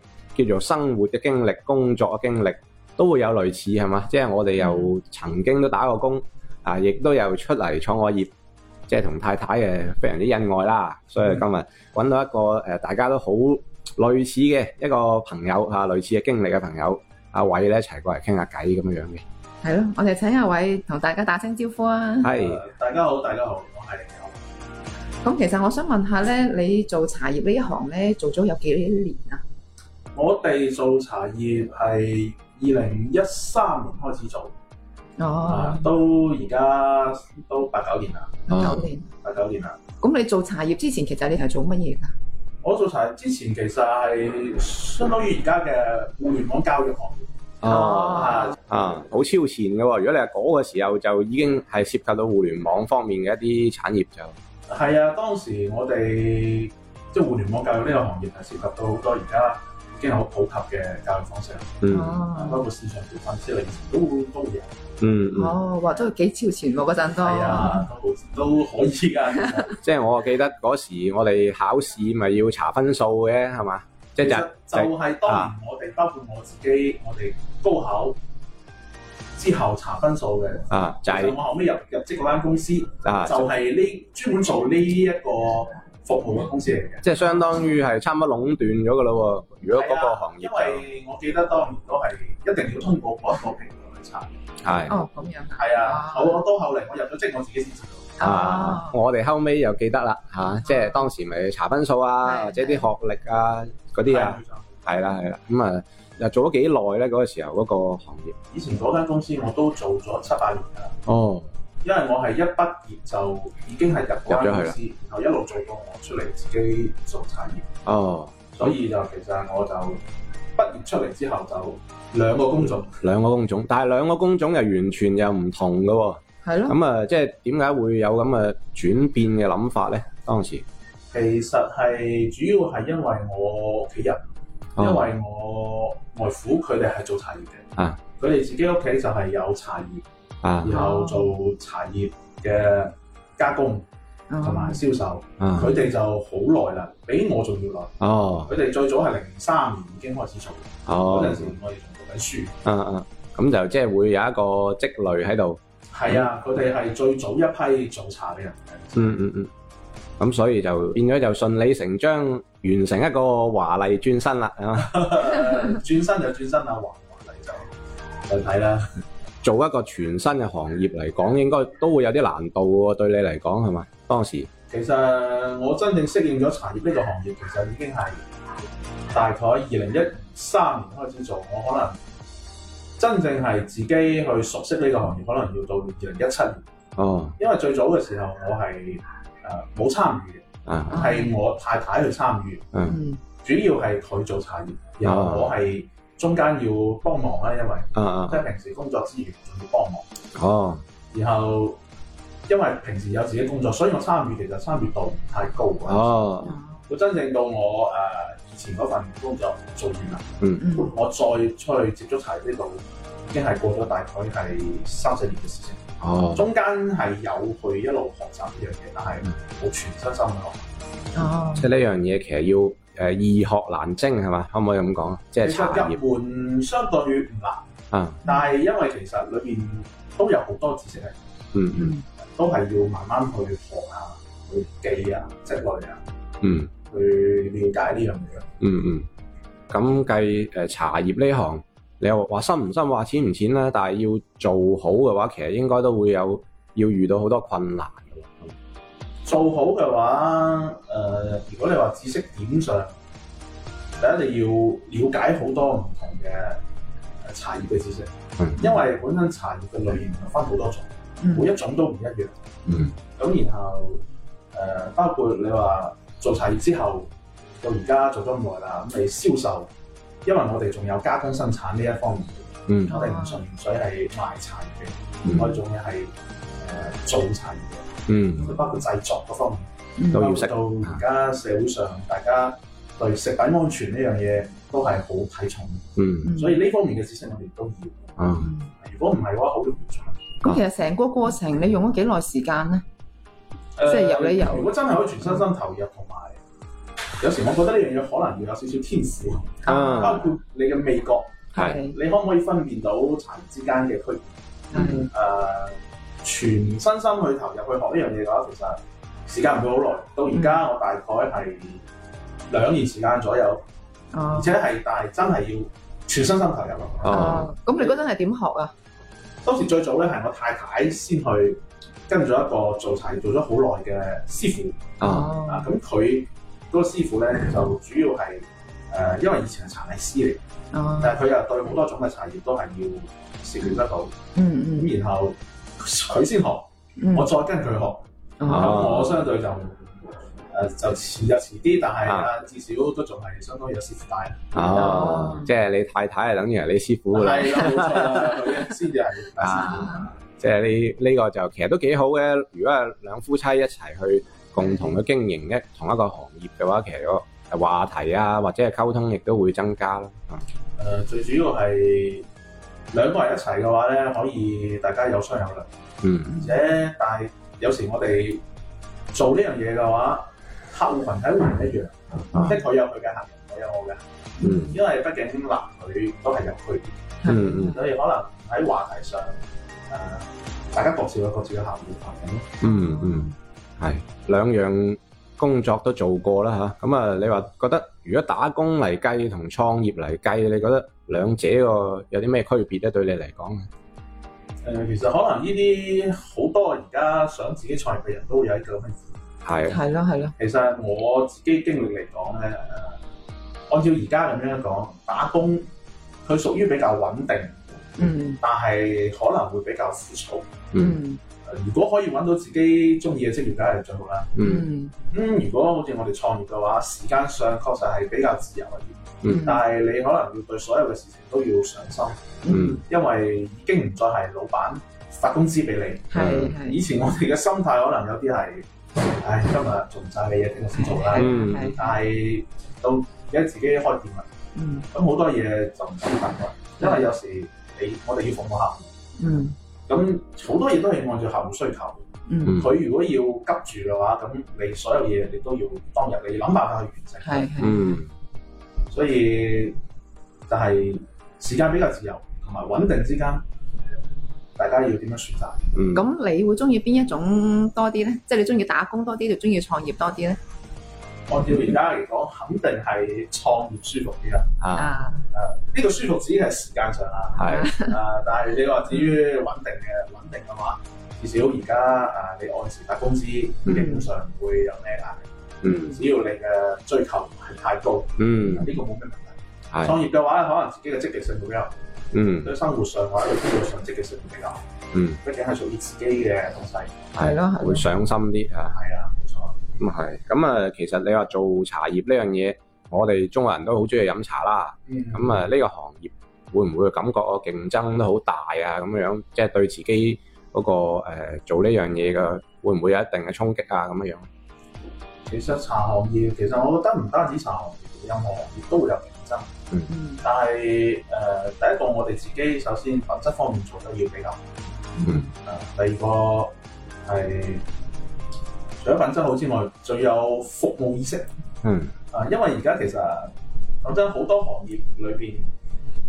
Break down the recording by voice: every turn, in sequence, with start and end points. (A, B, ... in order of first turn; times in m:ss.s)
0:00.4-0:08.3 A
0:04.6-0:04.9 B
0:08.9-0:19.2 A
0:19.6-0:22.3 B
0:22.2-0:22.6 A
0:22.3-0:24.4 C
0:25.2-0:29.4 B
0:30.1-0:34.5 C
0:35.2-0:35.9 B
0:35.4-0:38.6 C
0:38.5-0:39.1 B
0:38.5-0:38.9 A
0:39.2-0:39.8 C
0:40.0-0:42.1 B
0:42.6-0:47.3 C
0:47.6-0:54.4 A
0:47.6-0:48.5 B
0:48.1-0:48.6 C
0:54.7-1:01.8 C
1:01.8-1:02.2 A
1:01.9-1:02.6 B
1:02.3-1:04.8 C
1:05.0-1:05.6 A
1:05.4-1:07.8 B
1:07.2-1:09.8 C
1:09.8-1:15.5 A
1:14.2-1:18.2 C
1:19.4-1:27.1 C
1:20.7-1:21.4 A
1:23.0-1:23.5 A
1:27.0-1:30.8 A
1:29.7-1:34.3 C
1:34.6-1:34.9 A
1:34.9-1:36.4 B
1:35.6-1:38.2 C
1:38.2-1:38.9 B
1:38.2-1:48.3 A
1:40.4-1:41.1 B
1:42.2-1:42.9 B
1:44.0-1:45.1 C
1:48.5-1:51.0 C
1:51.0-1:51.5 A
1:51.8-1:57.6 C
1:54.3-1:54.8 A
1:57.8-1:58.8 A
1:58.6-2:00.0 C
2:00.6-2:03.0 C
2:03.0-2:10.6 A
2:06.4-2:06.8 B
2:11.1-2:14.2 C
2:14.8-2:15.1 A
2:14.8-2:17.6 C
2:18.2-2:20.0 C
2:20.4-2:20.8 A
2:20.6-2:23.9 C
2:20.6-2:21.3 B
2:24.3-2:24.8 B
2:24.4-2:32.5 C
2:25.4-2:25.7 A
2:28.0-2:28.5 A
2:30.9-2:31.5 A
2:32.6-2:36.2 A
2:35.9-2:39.2 C
2:39.0-2:39.5 A
2:40.2-2:44.9 A
2:44.8-2:47.7 C
2:48.2-2:48.9 C
2:49.4-2:54.5 A
2:54.7-2:58.2 C
2:59.1-3:02.0 C
3:03.0-3:06.6 C
3:07.0-3:07.4 A
3:07.4-3:12.6 C
3:10.6-3:11.0 A
3:10.9-3:11.4 B
3:12.9-3:13.2 B
3:13.4-3:20.1 C
3:15.0-3:15.5 A
3:17.9-3:18.4 A
3:20.3-3:20.8 A
3:21.1-3:21.8 C
3:22.5-3:26.3 C
3:25.9-3:26.5 A
3:26.4-3:26.9 B
3:26.9-3:40.6 C
3:30.6-3:30.9 B
3:36.0-3:36.4 A
3:41.1-3:41.7 B
3:41.6-3:46.0 A
3:45.4-3:47.7 C
3:47.9-3:48.2 A
3:48.2-3:51.2 C
3:51.5-3:51.9 A
3:51.8-3:52.0 B
3:52.2-3:56.0 C
3:56.4-3:56.7 A
3:56.9-3:58.5 C
3:58.6-3:59.1 A
3:59.7-4:08.5 A
4:09.2-4:12.9 C
4:14.0-4:16.6 C
4:17.2-4:22.5 C
4:21.2-4:21.5 B
4:22.7-4:22.9 A
4:23.1-4:27.1 C
4:27.6-4:29.7 C
4:30.2-4:37.9 C
4:32.7-4:32.9 A
4:32.9-4:33.4 B
4:35.2-4:35.5 A
4:35.3-4:35.6 B
4:38.1-4:38.5 A
4:38.4-4:48.1 C
4:38.4-4:38.8 B
4:40.0-4:40.3 B
4:40.1-4:41.0 A
4:46.0-4:46.3 A
4:46.2-4:46.6 B
4:48.2-4:48.5 A
4:48.4-4:48.7 B
4:48.8-4:50.2 C
4:50.4-4:52.8 B
4:53.8-4:56.4 C
4:53.8-4:55.4 B
4:57.2-5:11.8 C
4:59.6-5:00.3 B
4:59.7-5:00.3 A
5:01.5-5:02.0 B
5:01.6-5:01.8 A
5:04.7-5:05.1 B
5:04.7-5:05.0 A
5:10.3-5:10.6 B
5:12.5-5:13.6 C
5:14.1-5:14.6 B
5:14.3-5:18.0 C
5:17.0-5:17.5 A
5:17.1-5:18.7 B
5:19.4-5:24.9 C
5:25.0-5:25.3 A
5:25.0-5:25.7 B
5:25.4-5:30.4 C
5:30.7-5:31.2 B
5:31.0-5:34.2 C
5:34.3-5:34.9 B
5:34.8-5:39.8 C
5:37.0-5:37.3 B
5:38.4-5:38.8 B
5:38.4-5:39.2 A
5:40.5-5:45.3 C
5:44.5-5:48.5 A
5:44.7-5:45.5 B
5:47.1-5:50.1 C
5:49.4-6:00.4 A
5:49.6-5:50.0 B
5:54.6-5:55.0 B
6:00.8-6:02.3 C
6:02.9-6:05.7 C
6:06.0-6:06.4 A
6:06.3-6:06.6 B
6:06.4-6:08.4 C
6:09.1-6:14.0 C
6:14.4-6:14.8 B
6:14.4-6:14.8 A
6:14.7-6:22.5 C
6:17.2-6:17.9 B
6:17.2-6:17.8 A
6:22.6-6:33.7 A
6:22.6-6:23.3 B
6:34.6-6:39.0 C
6:39.4-6:39.8 A
6:39.7-6:40.3 B
6:40.4-6:43.0 C
6:43.7-6:45.7 C
6:46.2-6:50.6 C
6:48.0-6:48.4 B
6:50.7-6:51.0 A
6:50.7-6:51.2 B
6:51.4-6:54.3 C
6:54.4-6:54.7 A
6:54.4-6:54.9 B
6:55.1-7:08.7 C
6:59.2-6:59.6 B
7:02.4-7:02.8 B
7:02.5-7:02.8 A
7:06.1-7:06.8 B
7:06.1-7:06.6 A
7:09.2-7:14.3 C
7:10.7-7:12.0 B
7:11.2-7:11.7 A
7:14.6-7:14.9 B
7:14.9-7:18.9 C
7:16.8-7:17.0 B
7:19.2-7:19.6 B
7:19.9-7:27.7 C
7:22.3-7:22.6 B
7:27.2-7:28.0 B
7:27.6-7:28.1 A
7:28.9-7:29.8 C
7:30.5-7:33.4 C
7:34.6-7:35.7 C
7:35.7-7:36.0 A
7:35.9-7:40.4 B
7:41.3-7:44.5 C
7:44.6-7:44.9 A
7:44.8-7:45.2 B
7:45.3-7:55.3 C
7:47.4-7:47.7 A
7:47.4-7:48.0 B
7:48.9-7:49.2 B
7:53.6-7:54.0 B
7:55.6-7:56.0 A
7:55.6-7:56.0 B
7:55.8-8:01.7 C
7:58.2-7:58.7 A
8:02.1-8:02.5 A
8:02.4-8:04.6 C
8:04.9-8:05.2 A
8:05.2-8:07.1 C
8:07.2-8:08.7 A
8:07.2-8:07.9 B
8:08.6-8:09.6 C
8:09.8-8:24.3 A
8:14.9-8:15.5 C
8:25.2-8:29.5 C
8:29.9-8:30.2 B
8:30.2-8:34.4 C
8:35.0-8:35.3 B
8:35.4-8:36.5 C
8:37.0-8:37.6 C
8:38.8-8:41.3 C
8:41.6-8:41.9 A
8:42.1-8:45.5 C